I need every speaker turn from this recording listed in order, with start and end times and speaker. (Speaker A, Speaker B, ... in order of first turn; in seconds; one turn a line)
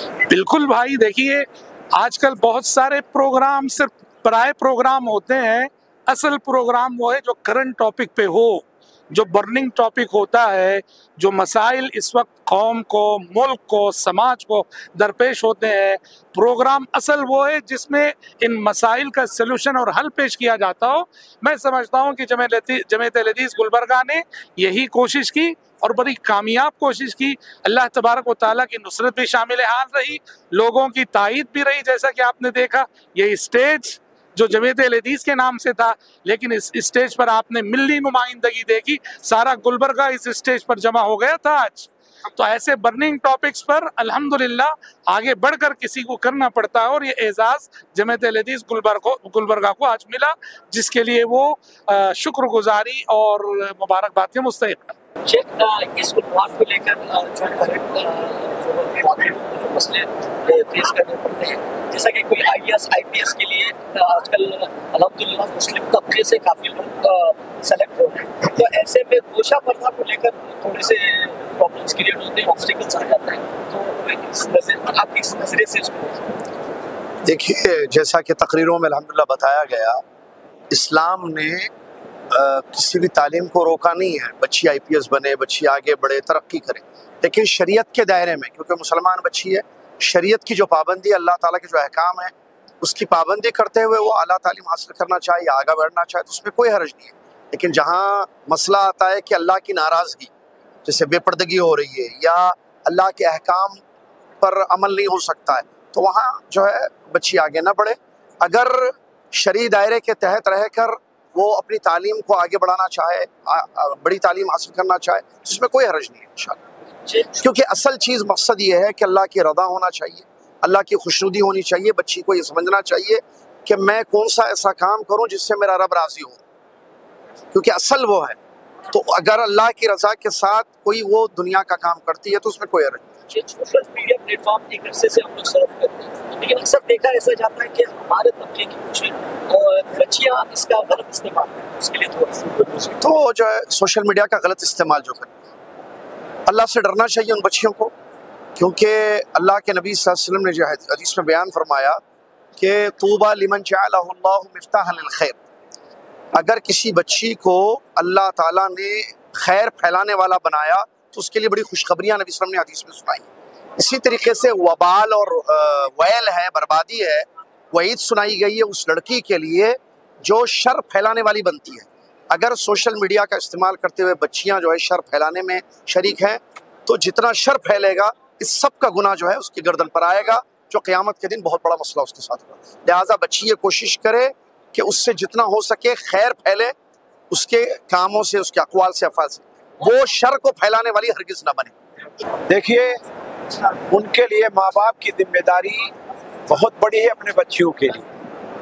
Speaker A: 0.2-54.9
Speaker B: 55.2-76.5
Speaker C: 77.2-80.0
Speaker C: 80.7-81.7
Speaker C: 82.3-100.3
Speaker C: 100.8-103.8
Speaker C: 104.4-116.6
Speaker B: 117.1-117.4
Speaker C: 117.4-126.4
Speaker C: 127.5-128.4
Speaker C: 128.9-133.1
Speaker B: 133.3-143.0
Speaker C: 143.0-145.3
Speaker C: 146.5-147.9
Speaker C: 148.6-152.0
Speaker C: 152.6-155.4
Speaker C: 156.3-186.7
Speaker C: 187.3-191.7
Speaker D: 192.5-193.0
Speaker D: 193.9-195.9
Speaker D: 196.5-198.1